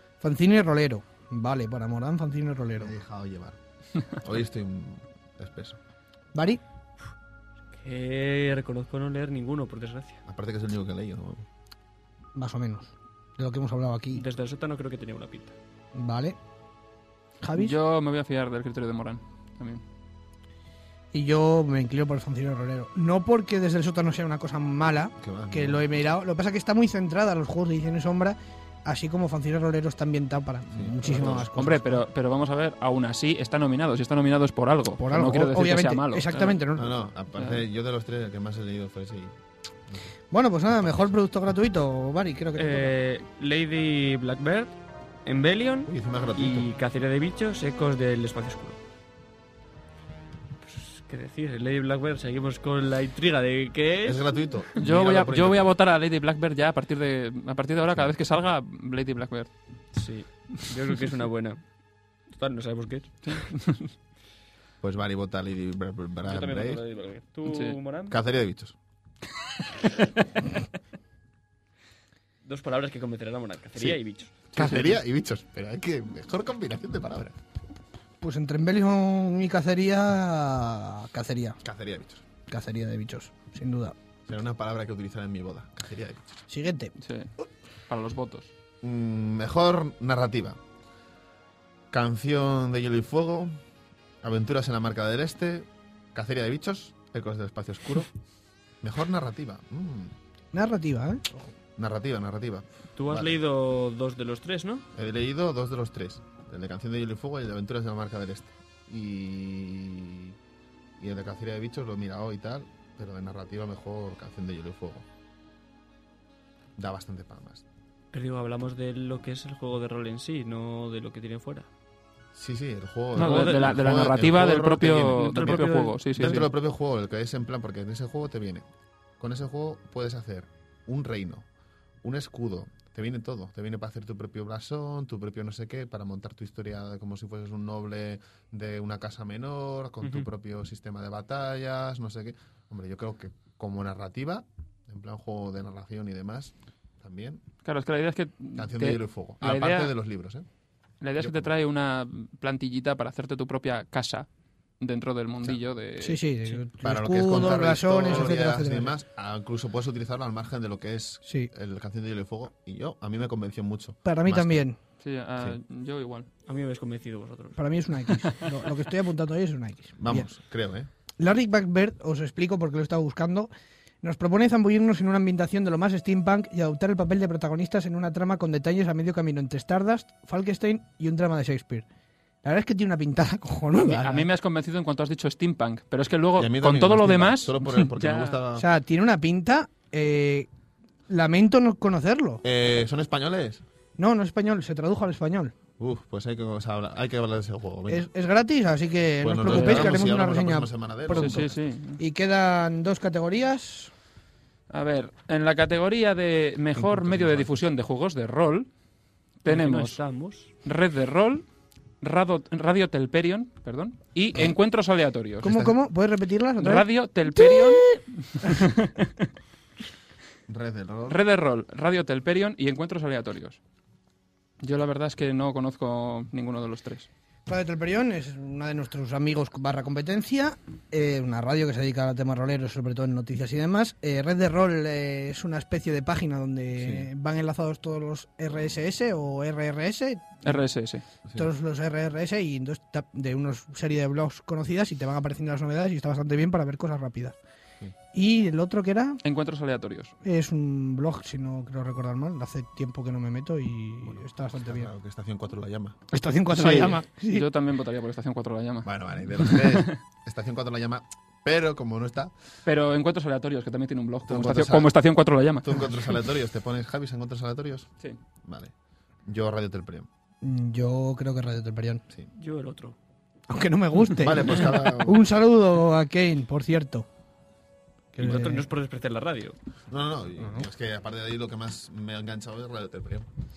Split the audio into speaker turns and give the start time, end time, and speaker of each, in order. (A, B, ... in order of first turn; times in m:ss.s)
0:00.2-0:03.0 A
0:02.8-0:03.6 B
0:04.1-0:05.8 B
0:06.3-0:06.6 A
0:07.8-0:10.2 C
0:10.2-0:11.5 B
0:12.4-0:14.2 A
0:14.2-0:15.6 C
0:16.0-0:16.4 A
0:17.4-0:17.8 A
0:17.6-0:19.8 D
0:21.1-0:32.0 A
0:25.2-0:25.8 B
0:30.7-0:31.5 B
0:31.4-0:36.6 D
0:35.0-0:36.9 A
0:36.8-0:39.4 B
0:37.4-0:37.6 D
0:39.9-0:40.2 B
0:40.3-0:43.0 A
0:40.7-0:41.2 B
0:42.6-0:48.8 C
0:45.9-0:46.7 B
0:50.6-0:54.2 C
0:54.0-0:55.7 B
0:54.8-0:59.5 D
0:57.9-0:58.2 B
0:59.9-1:01.6 C
1:02.3-1:03.4 C
1:03.3-1:03.9 D
1:04.8-1:06.8 B
1:06.2-1:08.2 C
1:07.4-1:07.8 D
1:08.1-1:08.8 B
1:12.4-1:14.4 C
1:14.5-1:17.4 B
1:14.5-1:15.0 D
1:18.2-1:21.6 A
1:21.6-1:22.2 B
1:22.5-1:24.0 A
1:24.3-1:26.4 B
1:26.5-1:26.9 A
1:27.0-1:27.3 D
1:27.9-1:28.5 D
1:28.8-1:30.6 B
1:31.9-1:33.6 B
1:34.2-1:38.1 B
1:38.8-1:40.2 B
1:40.5-1:41.5 A
1:41.8-1:43.4 B
1:43.0-1:44.9 C
1:44.9-1:50.4 B
1:51.0-1:55.1 B
1:56.8-1:57.6 B
1:58.1-2:01.7 C
2:02.3-2:08.7 B
2:03.2-2:06.5 D
2:03.2-2:03.8 C
2:05.1-2:06.5 C
2:09.2-2:11.5 B
2:12.0-2:27.4 B
2:20.0-2:20.3 C
2:27.6-2:29.9 D
2:28.6-2:30.5 B
2:31.0-2:34.3 D
2:31.2-2:31.5 B
2:34.8-2:36.6 D
2:36.0-2:39.0 A
2:36.8-2:44.6 B
2:41.2-2:41.5 A
2:44.0-2:44.8 A
2:45.0-2:46.3 D
2:46.5-2:47.6 C
2:47.6-2:50.3 A
2:50.0-2:50.9 B
2:51.2-2:53.5 A
2:54.0-3:01.9 A
3:02.4-3:04.3 A
3:03.7-3:08.4 D
3:06.4-3:08.6 B
3:08.6-3:10.5 A
3:11.1-3:12.4 A
3:12.4-3:13.6 B
3:14.0-3:15.5 A
3:15.8-3:18.1 B
3:17.9-3:21.4 A
3:19.2-3:21.6 B
3:19.5-3:20.0 D
3:21.1-3:22.0 D
3:22.0-3:23.9 A
3:24.7-3:28.7 D
3:26.8-3:27.6 B
3:29.4-3:30.0 D
3:29.5-3:30.5 C
3:30.6-3:31.4 D
3:32.0-3:35.6 D
3:35.4-3:35.7 B
3:35.4-3:37.7 A
3:36.6-3:39.1 D
3:40.5-3:41.2 B
3:41.1-3:43.6 D
3:44.6-3:47.1 D
3:47.5-4:00.6 A
3:56.8-3:57.1 B
4:00.4-4:01.0 D
4:01.4-4:07.4 A
4:08.1-4:09.2 A
4:09.2-4:10.1 D
4:10.2-4:14.9 A
4:14.1-4:16.0 B
4:16.1-4:17.4 A
4:16.6-4:20.0 D
4:18.8-4:22.3 B
4:22.6-4:26.0 D
4:24.3-4:24.9 B
4:25.6-4:27.9 B
4:28.4-4:28.7 B
4:29.3-4:30.1 B
4:30.4-4:32.0 A
4:32.3-4:33.0 C
4:33.5-4:37.1 A
4:34.2-4:35.3 B
4:38.1-4:38.6 A
4:38.2-4:39.6 C
4:39.9-4:43.3 B
4:40.4-4:40.7 A